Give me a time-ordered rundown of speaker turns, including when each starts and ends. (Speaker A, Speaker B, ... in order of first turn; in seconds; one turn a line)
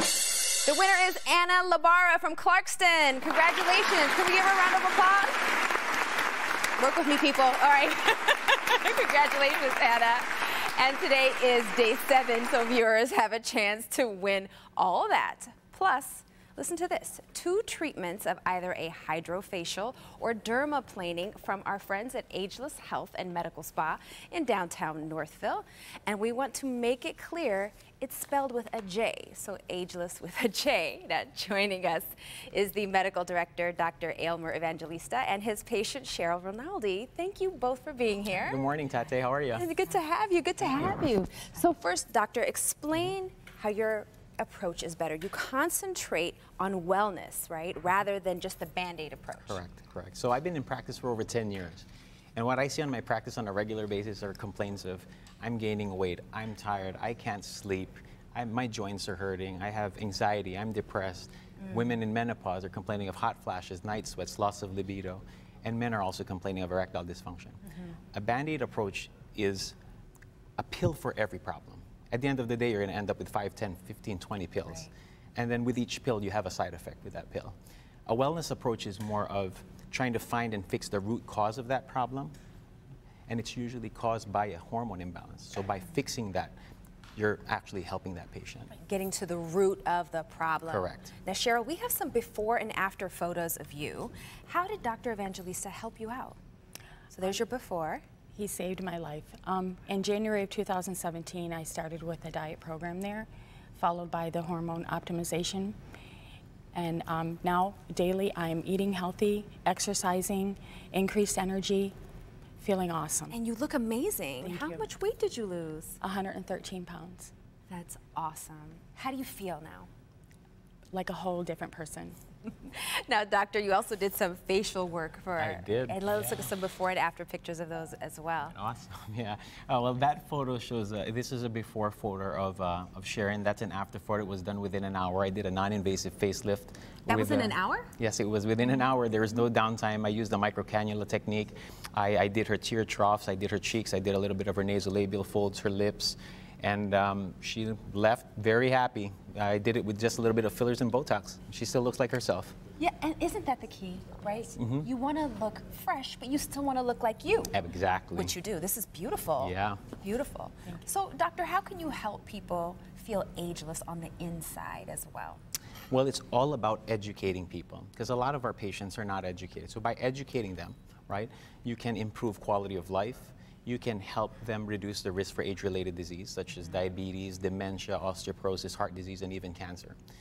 Speaker A: 0.7-5.5
Speaker A: 6.8-38.6
Speaker B: 38.3-39.7
Speaker A: 39.5-49.6
Speaker B: 49.5-67.6
Speaker B: 68.1-69.8
Speaker B: 70.6-77.5
Speaker B: 78.1-82.3
Speaker B: 83.3-86.5
Speaker B: 87.2-88.7
Speaker A: 88.7-96.4
Speaker B: 90.7-91.1
Speaker A: 97.1-98.0
Speaker C: 98.3-105.8
Speaker C: 106.7-111.9
Speaker C: 112.6-113.3
Speaker A: 113.3-116.0
Speaker C: 114.4-114.8
Speaker C: 116.0-117.3
Speaker A: 117.7-119.9
Speaker C: 120.9-122.2
Speaker A: 122.6-128.6
Speaker B: 125.4-126.5
Speaker B: 128.5-152.6
Speaker A: 137.1-137.9
Speaker A: 152.8-157.5
Speaker B: 154.6-154.9
Speaker B: 157.5-158.3
Speaker A: 158.1-165.4
Speaker B: 159.4-159.8
Speaker B: 165.9-180.0